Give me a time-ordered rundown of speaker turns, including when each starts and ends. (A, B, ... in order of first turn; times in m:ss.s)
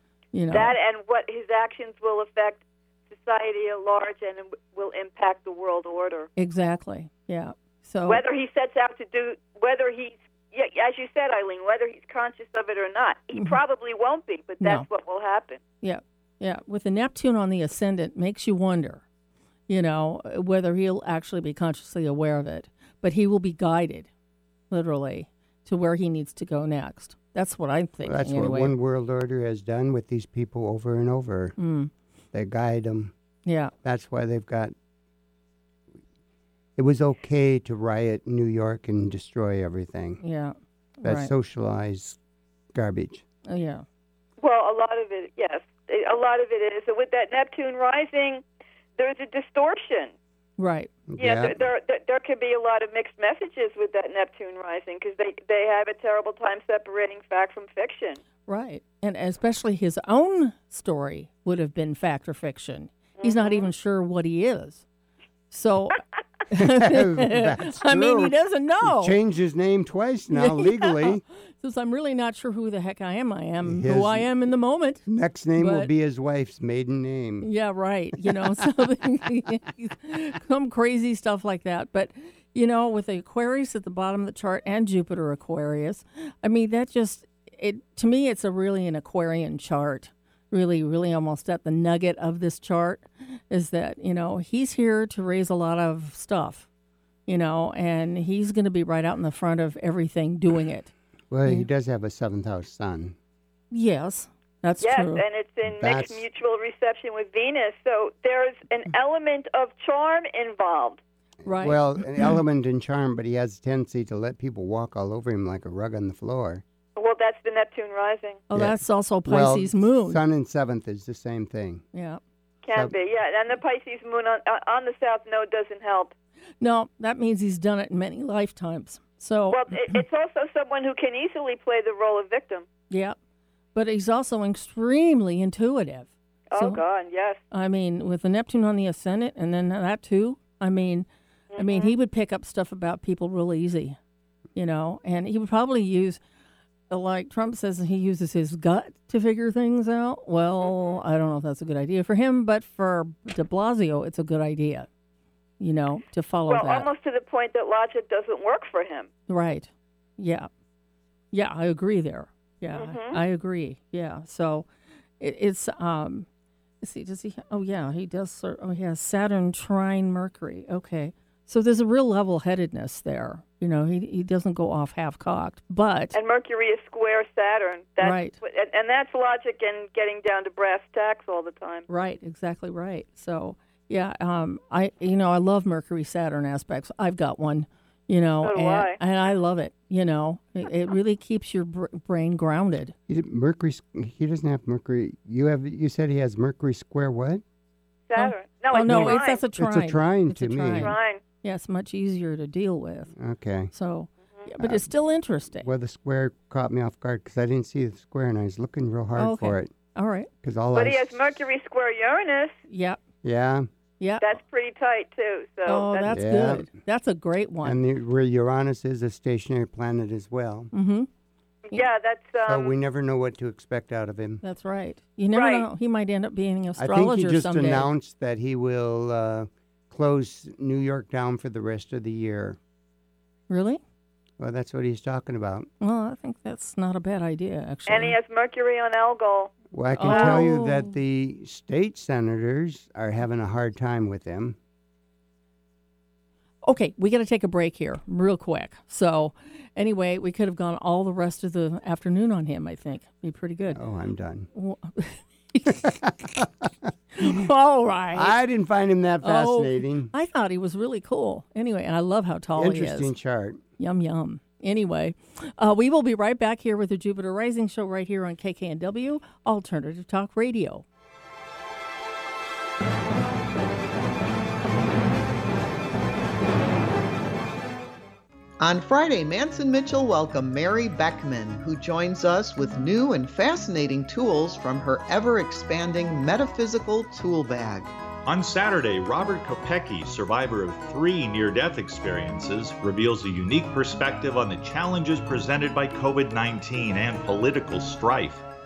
0:00.3-0:00.7 A
0:00.5-0:06.3 B
0:06.4-0:08.2 A
0:08.1-0:15.6 B
0:14.6-0:14.8 A
0:15.8-0:19.0 A
0:19.7-0:24.1 A
0:24.7-0:28.7 A
0:28.0-0:31.6 C
0:31.6-0:31.9 A
0:32.3-0:33.1 C
0:33.4-0:33.7 A
0:33.8-0:34.7 C
0:36.8-0:40.2 C
0:40.2-0:41.3 A
0:41.0-0:42.2 C
0:42.7-0:43.2 C
0:43.5-0:43.8 A
0:44.4-0:48.4 B
0:49.0-0:50.1 B
0:50.6-0:50.9 A
0:51.1-0:51.6 C
0:51.2-0:58.2 B
0:58.5-1:04.8 A
1:03.2-1:03.7 B
1:05.5-1:09.1 A
1:06.5-1:11.2 C
1:10.3-1:15.0 A
1:13.6-1:14.3 C
1:15.0-1:17.5 C
1:15.6-1:15.9 A
1:17.4-1:36.7 A
1:18.2-1:18.7 C
1:37.3-1:40.9 A
1:41.3-1:43.2 C
1:43.7-1:45.2 A
1:44.8-1:51.0 B
1:45.7-1:46.2 C
1:51.4-1:56.6 C
1:51.4-1:52.4 A
1:57.0-1:58.4 B
1:58.5-2:00.2 A
1:58.5-2:01.8 C
2:01.9-2:02.2 A
2:02.6-2:06.1 B
2:06.6-2:10.0 A
2:09.5-2:12.6 B
2:12.9-2:13.2 A
2:13.7-2:16.8 A
2:16.5-2:17.4 B
2:17.5-2:24.0 A
2:21.5-2:21.9 B
2:24.5-2:26.2 A
2:26.9-2:34.9 A
2:30.6-2:31.0 B
2:35.6-2:36.9 A
2:36.5-2:39.1 B
2:39.3-2:40.5 A
2:41.3-2:44.7 A
2:42.7-2:43.2 B
2:45.2-2:46.3 A
2:46.8-2:56.2 A
2:56.1-3:01.8 B
2:58.0-2:58.4 A
3:01.9-3:12.9 A
3:08.4-3:09.0 B
3:13.1-3:17.4 C
3:18.1-3:19.4 B
3:18.2-3:23.1 A
3:18.8-3:20.9 C
3:20.8-3:21.2 B
3:23.2-3:23.7 C
3:23.7-3:25.7 A
3:24.6-3:24.9 C
3:25.5-3:29.7 C
3:29.2-3:30.3 A
3:30.4-3:31.2 C
3:30.7-3:32.6 B
3:32.7-3:33.0 A
3:33.2-3:33.7 C
3:34.0-3:34.3 A
3:34.2-3:36.2 B
3:35.7-3:37.8 A
3:36.1-3:36.7 C
3:37.6-3:40.7 C
3:40.7-3:41.1 A
3:41.7-3:42.7 B
3:42.4-3:44.4 C
3:44.4-3:47.9 A
3:45.3-3:45.7 B
3:46.8-3:52.6 C
3:53.5-3:53.8 A
3:54.4-3:55.7 C
3:55.8-3:58.2 A
3:57.9-4:00.4 B
3:59.7-4:04.6 C
4:00.0-4:00.9 A
4:06.6-4:13.8 A
4:13.7-4:14.5 C
4:14.5-4:16.0 A
4:15.9-4:16.5 C
4:17.2-4:18.4 A
4:18.1-4:20.1 C
4:19.2-4:23.1 A
4:22.6-4:23.6 C
4:23.8-4:30.8 A
4:38.6-4:47.9 D
4:48.2-4:58.4 E